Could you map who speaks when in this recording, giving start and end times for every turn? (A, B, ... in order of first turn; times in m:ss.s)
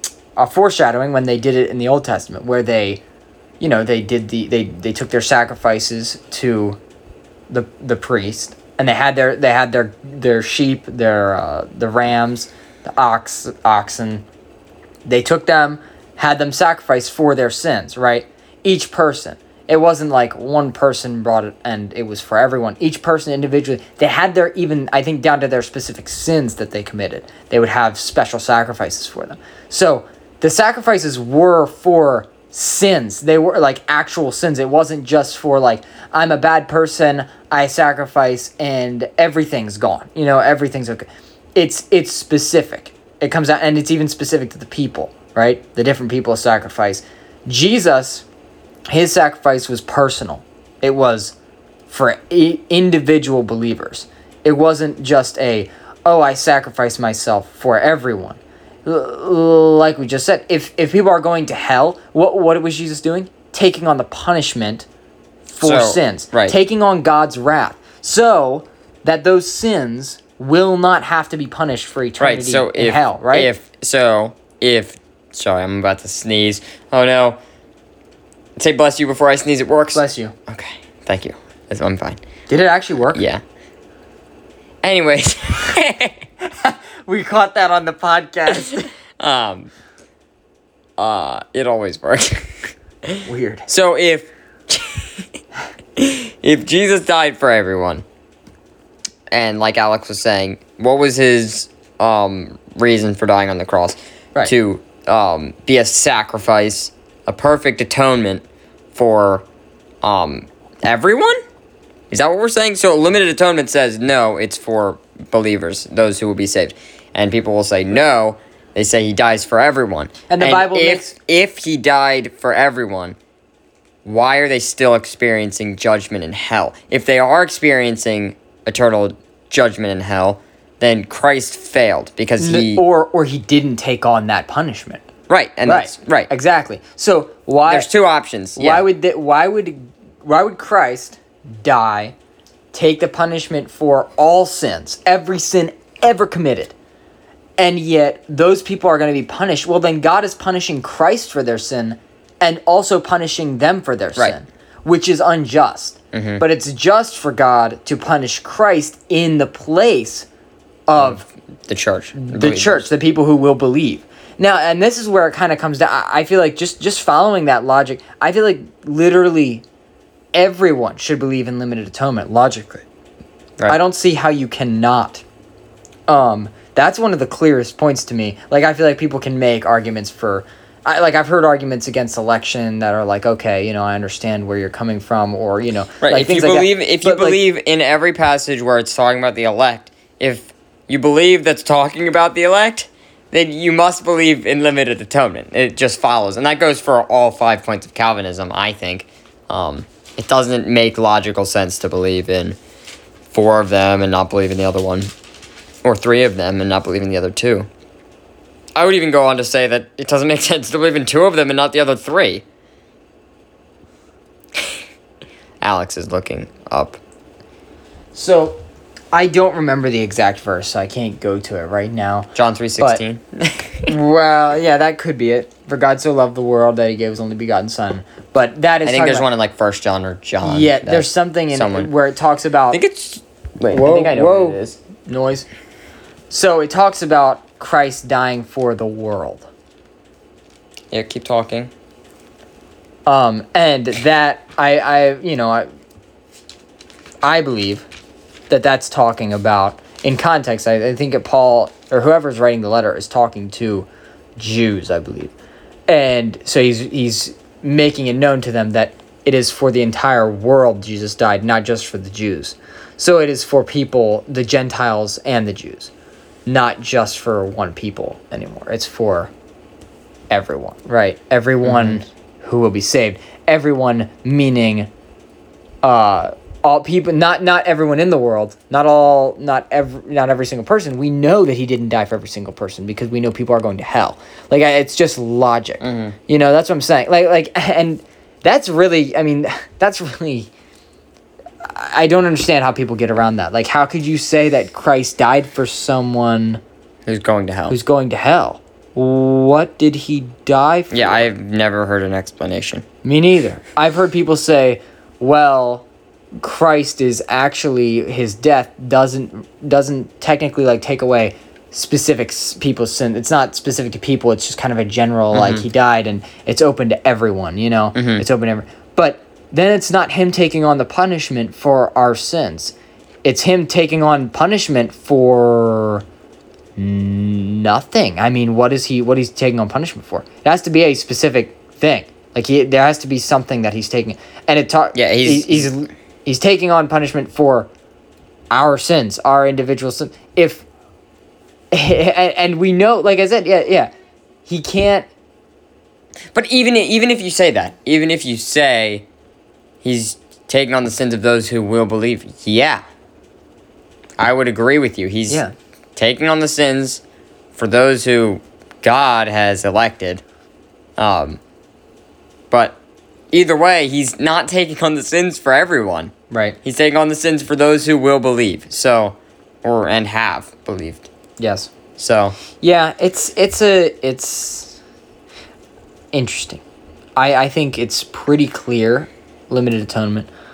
0:00.4-0:03.0 A
0:03.6-0:06.8 A
0:07.5-0:14.2 A
0:15.0-0:48.2 A
0:48.9-0:51.3 A
0:51.9-1:04.9 A
1:05.5-1:13.5 A
1:05.6-1:06.6 B
1:12.2-1:17.4 B
1:18.6-1:22.2 B
1:19.9-1:20.3 A
1:22.5-1:23.2 A
1:23.1-1:23.4 B
1:24.8-1:26.2 B
1:26.4-1:28.9 A
1:28.8-1:29.7 B
1:31.0-1:35.2 B
1:33.2-1:33.7 A
1:36.0-1:38.0 B
1:39.3-1:48.4 B
1:48.9-1:49.4 B
1:50.0-1:51.4 B
1:52.1-2:03.2 B
2:00.3-2:01.1 A
2:04.0-2:12.8 B
2:12.4-2:15.0 A
2:15.3-2:16.3 B
2:15.6-2:17.9 A
2:17.6-2:18.8 B
2:18.6-2:22.1 A
2:22.7-2:26.7 A
2:27.6-2:40.3 A
2:36.1-2:36.4 B
2:40.9-2:41.2 A
2:41.0-2:42.9 B
2:42.1-2:49.6 A
2:50.3-2:52.8 A
2:53.7-2:55.2 A
2:56.1-3:07.4 A
3:06.0-3:22.6 B
3:23.3-3:25.1 B
3:25.8-3:27.7 B
3:28.8-3:32.4 B
3:35.6-3:37.0 B
3:38.1-3:43.0 A
3:42.3-3:43.9 B
3:43.9-3:49.3 A
3:48.8-3:51.9 B
3:50.4-3:52.8 A
3:52.7-3:54.8 B
3:53.7-3:55.5 A
3:56.3-3:59.5 A
4:00.9-4:01.7 B
4:03.0-4:05.7 A
4:07.2-4:07.8 A
4:08.5-4:15.3 A
4:15.9-4:25.9 A
4:26.4-4:29.3 A
4:30.3-4:34.9 A
4:31.6-4:32.0 B
4:35.8-4:50.5 A
4:45.8-4:46.2 B
4:51.6-4:56.6 A
4:57.0-4:57.8 B
4:57.7-5:01.3 A
5:00.9-5:02.8 B
5:03.0-5:05.8 A
5:06.4-5:22.7 A
5:15.3-5:15.6 B
5:17.9-5:18.2 B
5:23.2-5:26.0 A
5:26.8-5:37.7 A
5:34.9-5:35.7 B
5:38.5-5:40.6 A
5:41.7-5:43.9 A
5:44.4-5:45.1 A
5:46.3-5:49.0 B
5:49.8-5:52.8 B
5:54.2-5:55.4 B
5:56.0-5:57.0 B
5:57.5-6:00.2 B
6:01.0-6:01.4 B
6:02.5-6:02.8 B
6:03.3-6:11.1 B
6:06.3-6:06.6 A
6:11.4-6:11.7 A
6:12.0-6:12.4 B
6:12.6-6:14.8 A
6:16.1-6:16.6 A
6:17.2-6:20.3 A